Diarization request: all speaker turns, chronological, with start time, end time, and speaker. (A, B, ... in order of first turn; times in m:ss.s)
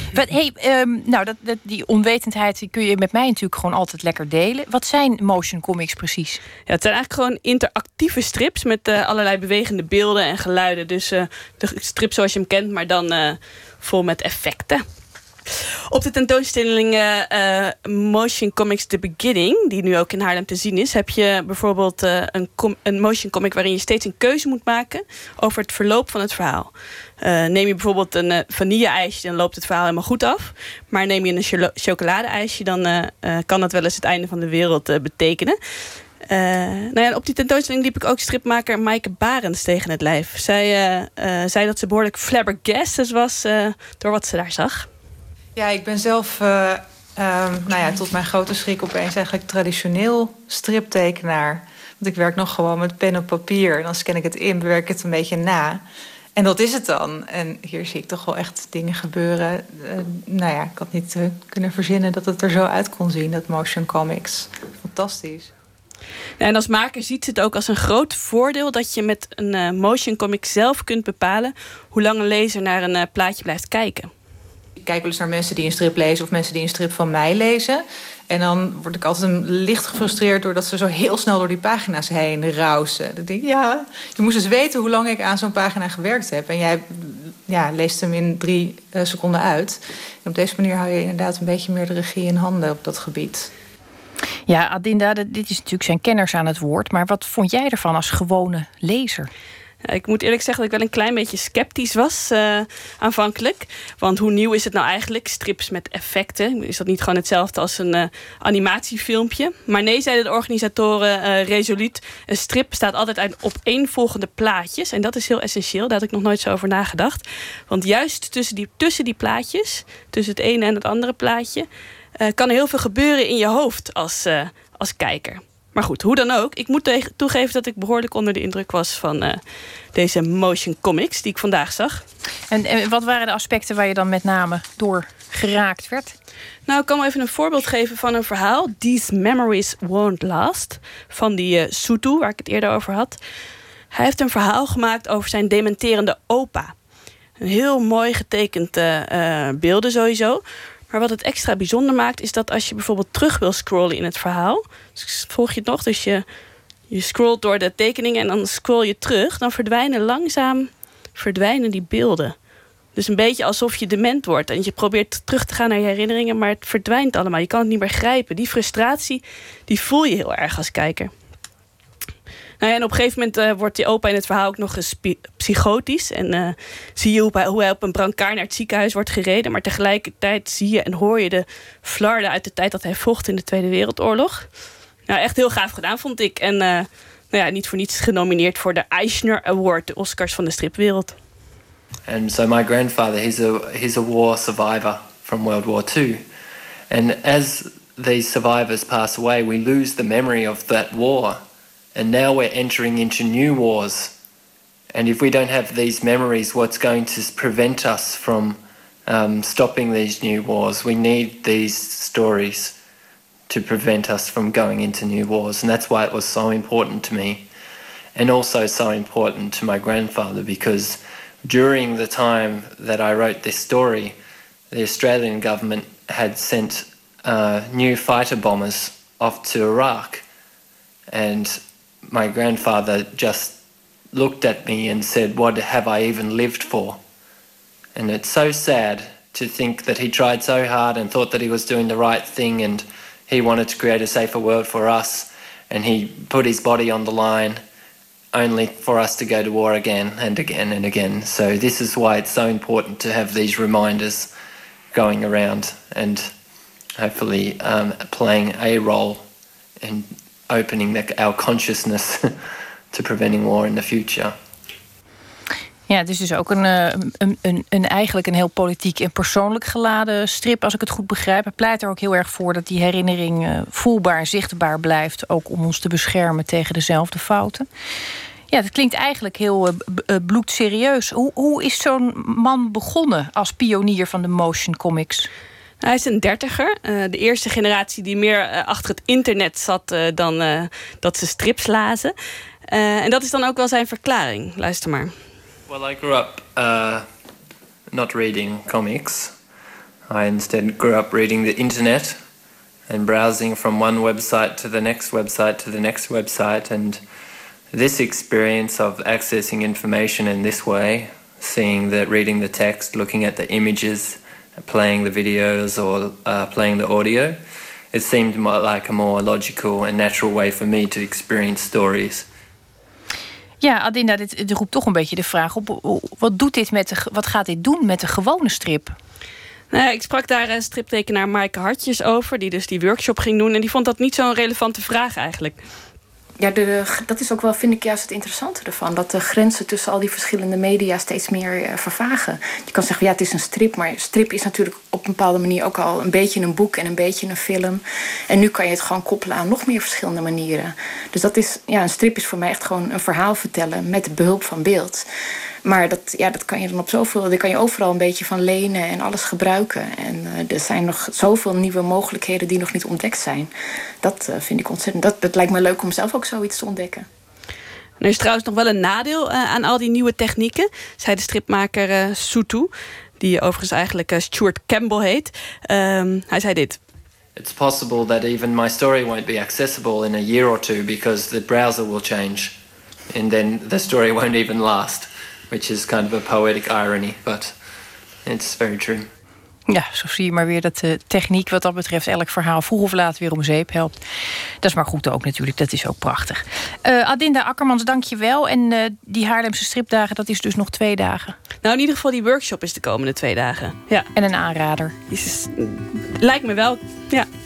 0:00.1-0:06.4 A
0:06.6-0:14.8 B
0:15.9-0:35.6 B
0:36.2-0:44.9 B
0:45.6-0:55.8 C
0:56.4-1:05.5 C
1:06.4-1:14.1 B
1:14.8-1:33.5 C
1:34.5-1:39.3 A
1:39.8-2:12.0 B
2:12.5-2:16.1 A
2:16.6-2:23.2 B
2:23.9-2:26.8 B
2:27.4-2:36.2 B
2:36.9-2:51.1 B
2:52.6-3:04.5 B
3:05.0-3:11.1 B
3:12.0-3:16.2 D
3:16.9-3:21.4 D
3:21.9-3:24.1 D
3:24.9-3:32.7 D
3:33.5-3:37.4 D
3:38.1-3:44.2 D
3:44.7-3:50.2 D
3:51.1-3:53.6 D
3:54.1-3:57.0 D
3:58.0-4:07.6 D
4:08.3-4:14.3 D
4:14.9-4:16.3 D
4:17.0-4:19.2 D
4:19.8-4:22.3 D
4:22.9-4:24.3 D
4:25.9-4:37.7 A
4:38.5-4:45.3 A
4:45.8-4:52.1 B
4:52.7-4:55.2 B
4:55.7-4:57.0 D
4:57.9-4:59.3 D
5:00.1-5:02.2 D
5:02.9-5:07.0 D
5:07.7-5:17.4 D
5:17.9-5:22.2 D
5:23.6-5:29.0 A
5:29.7-5:35.6 B
5:36.4-5:55.0 E
5:55.6-6:03.5 E
6:04.0-6:07.1 E
6:08.0-6:16.8 B
6:17.4-6:22.6 D
6:23.1-6:27.5 D
6:28.2-6:29.1 D
6:29.7-6:34.0 A
6:34.6-6:41.3 A
6:41.6-6:44.1 B
6:44.1-6:44.9 A
6:45.1-6:47.3 B